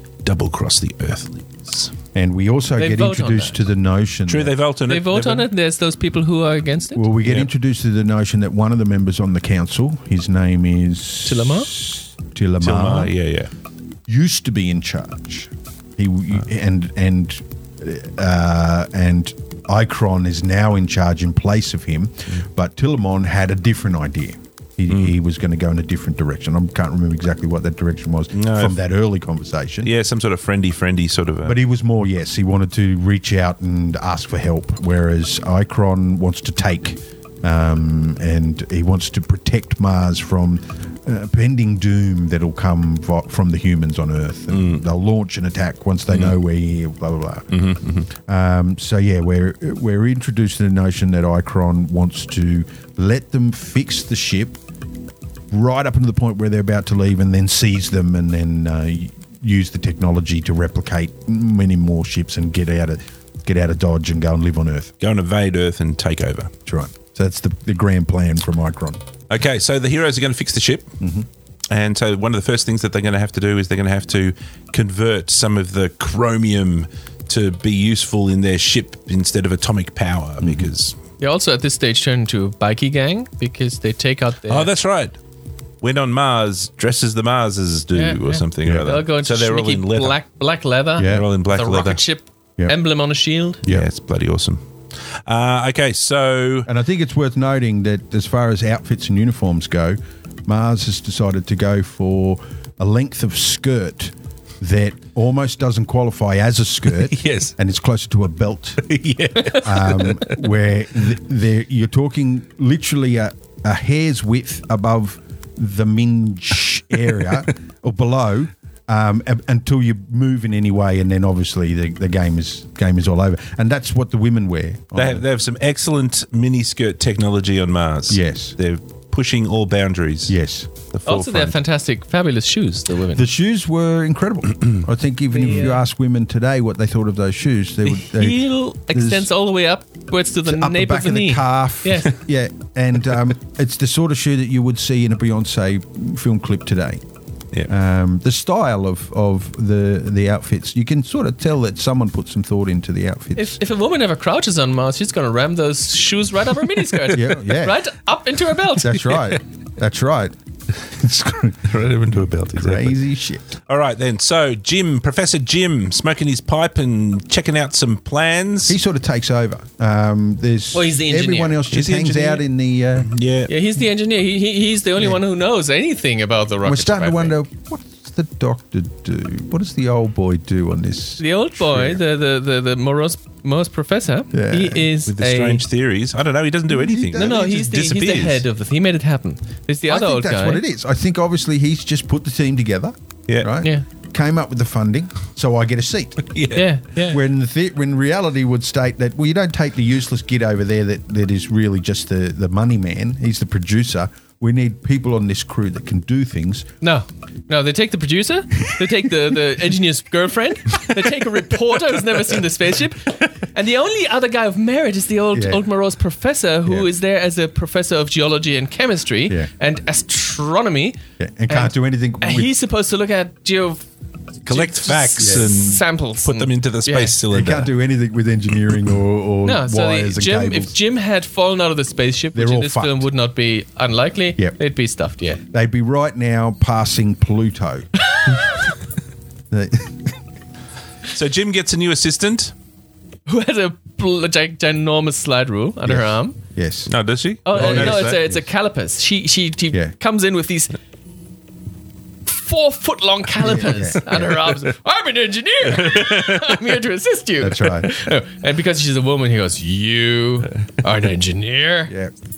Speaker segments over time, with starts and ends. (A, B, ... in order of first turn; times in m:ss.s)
0:00.2-0:01.9 A
0:02.1-0:04.6 B
0:02.8-0:03.6 C
0:04.3-0:05.5 A
0:04.9-0:07.1 C
0:06.9-0:13.1 B
0:11.2-0:11.7 C
0:12.6-0:13.5 A
0:14.1-0:29.9 B
0:28.3-0:28.8 A
0:29.8-0:31.6 A
0:31.4-0:47.6 B
0:44.5-0:44.8 A
0:47.5-0:48.1 A
0:48.1-0:54.6 B
0:55.5-1:04.9 B
1:05.0-1:06.5 A
1:06.6-1:09.0 B
1:09.3-1:10.9 A
1:11.0-1:11.3 B
1:11.7-1:20.9 A
1:20.4-1:20.7 B
1:21.2-1:24.7 C
1:24.5-1:25.2 A
1:25.8-1:30.2 A
1:27.9-1:33.6 C
1:28.6-1:28.9 B
1:31.0-1:31.3 B
1:31.0-1:32.0 A
1:33.6-1:34.6 A
1:35.2-1:36.7 A
1:36.7-1:48.8 B
1:47.0-1:47.5 A
1:48.8-1:50.4 A
1:49.4-1:49.6 C
1:49.5-2:05.2 B
2:04.9-2:10.4 A
2:08.1-2:08.5 B
2:10.3-2:10.7 B
2:10.9-2:11.6 A
2:11.0-2:13.2 C
2:13.1-2:19.3 B
2:15.3-2:15.8 C
2:17.8-2:22.2 C
2:20.4-2:27.0 B
2:27.7-2:33.6 B
2:33.3-2:39.2 C
2:37.1-2:37.8 B
2:38.7-2:41.7 B
2:41.6-2:43.0 A
2:42.6-2:43.5 B
2:43.7-2:48.8 A
2:48.7-2:53.1 B
2:50.7-2:51.6 C
2:51.7-2:52.4 A
2:53.0-2:53.5 A
2:53.5-2:57.4 C
2:56.6-3:02.0 B
3:01.2-3:05.6 C
3:04.3-3:04.8 B
3:05.0-3:08.4 A
3:06.7-3:07.4 B
3:07.1-3:10.6 C
3:09.9-3:16.3 B
3:16.3-3:16.7 A
3:16.5-3:17.2 C
3:17.1-3:26.7 B
3:26.8-3:41.0 C
3:35.3-3:35.6 B
3:41.2-3:42.5 B
3:41.5-3:43.8 C
3:44.4-3:47.7 A
3:44.5-3:47.2 C
3:45.2-3:45.5 B
3:47.3-3:50.7 B
3:49.4-3:55.4 C
3:52.3-3:53.1 B
3:55.5-3:57.9 B
3:58.1-3:58.7 C
3:59.5-4:00.1 B
4:01.1-4:02.5 A
4:03.3-4:06.4 C
4:05.8-4:06.9 B
4:06.9-4:08.1 A
4:07.4-4:10.8 C
4:07.5-4:08.4 B
4:12.2-4:21.9 C
4:13.4-4:14.4 B
4:15.8-4:16.5 A
4:17.4-4:17.9 B